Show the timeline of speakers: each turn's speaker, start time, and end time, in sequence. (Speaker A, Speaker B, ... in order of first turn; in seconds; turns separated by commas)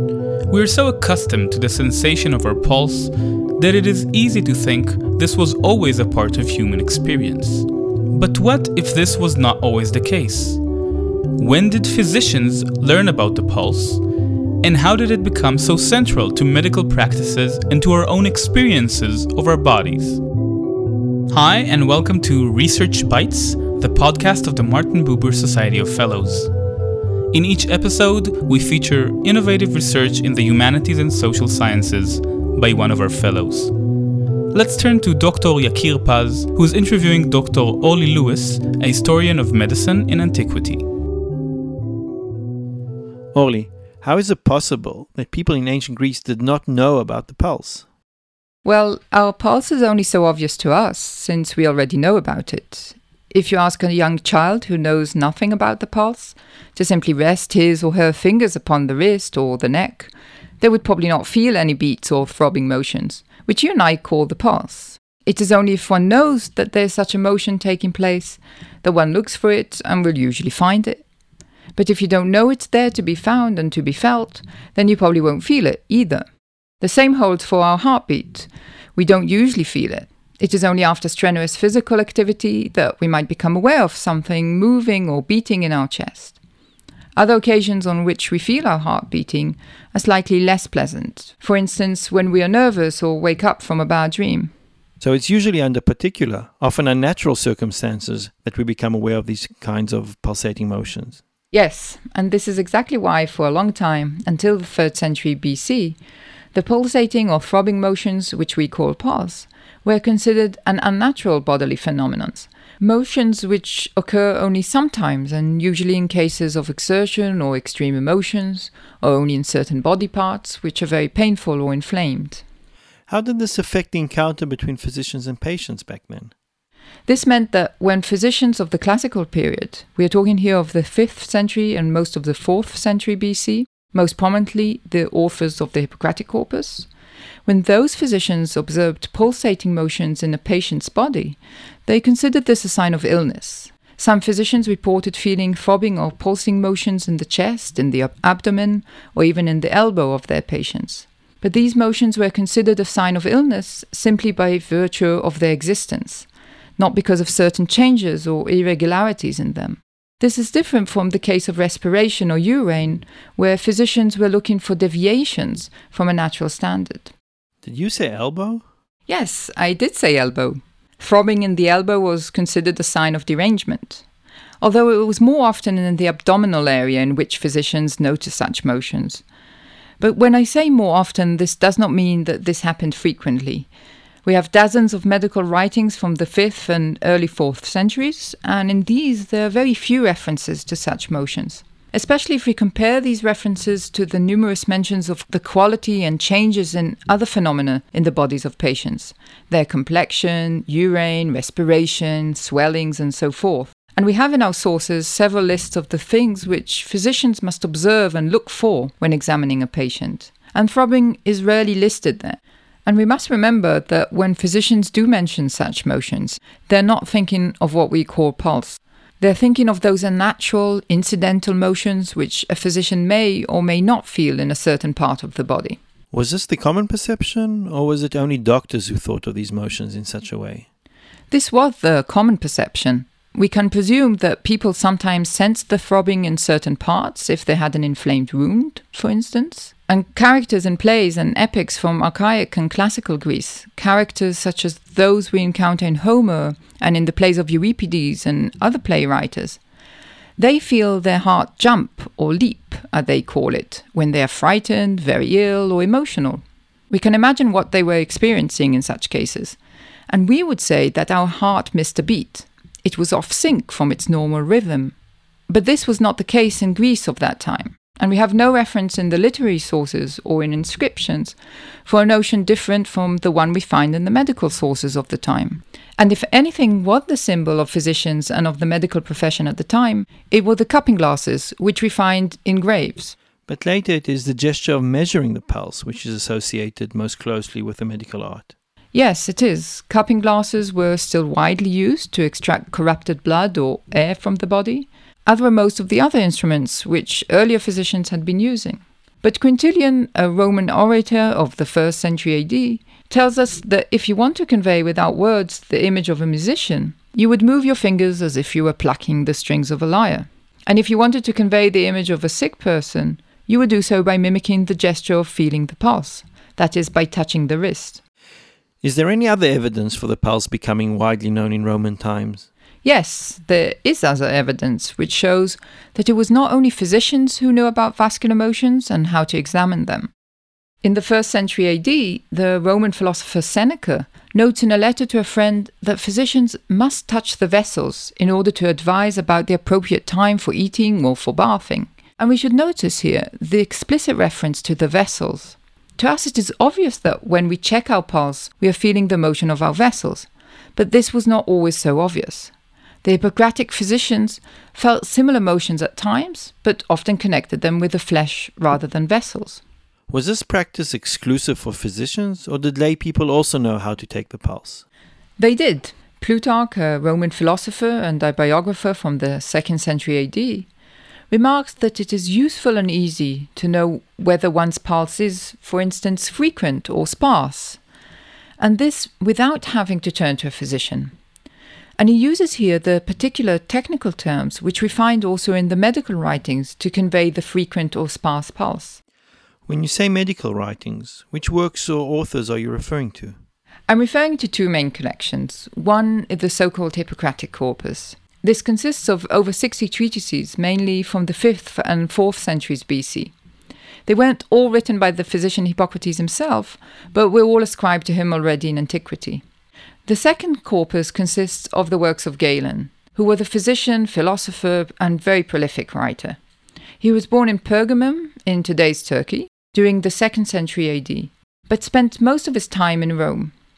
Speaker A: 0.5-10.6, Speaker A: 11.3-14.0, Speaker A: 14.6-20.2, Speaker A: 21.3-26.5, Speaker A: 27.3-33.7, Speaker A: 34.5-40.8, Speaker B: 43.3-47.8, Speaker C: 48.6-71.0, Speaker C: 71.7-76.2, Speaker C: 76.8-86.4, Speaker C: 87.2-94.5, Speaker B: 95.0-101.2, Speaker C: 101.5-106.0, Speaker C: 106.5-122.4, Speaker B: 123.1-126.3, Speaker C: 127.1-136.9, Speaker C: 137.5-156.3, Speaker C: 156.8-167.1, Speaker B: 167.6-168.6, Speaker C: 169.1-174.0, Speaker C: 174.6-179.2, Speaker C: 180.0-183.7, Speaker C: 184.2-225.8, Speaker B: 226.1-230.7, Speaker C: 231.3-249.6, Speaker C: 250.4-259.6, Speaker C: 260.1-264.9, Speaker C: 265.5-283.1, Speaker B: 283.5-288.5, Speaker C: 288.9-318.0, Speaker B: 318.8-322.5, Speaker C: 322.8-330.1, Speaker C: 330.8-352.5, Speaker C: 353.0-359.6, Speaker B: 360.1-364.8, Speaker C: 365.4-370.7, Speaker C: 371.3-377.8, Speaker C: 378.6-381.1, Speaker C: 382.0-389.0, Speaker B: 389.7-393.4, Speaker C: 393.9-403.3, Speaker C: 404.1-409.4, Speaker C: 410.1-416.4, Speaker C: 417.0-423.5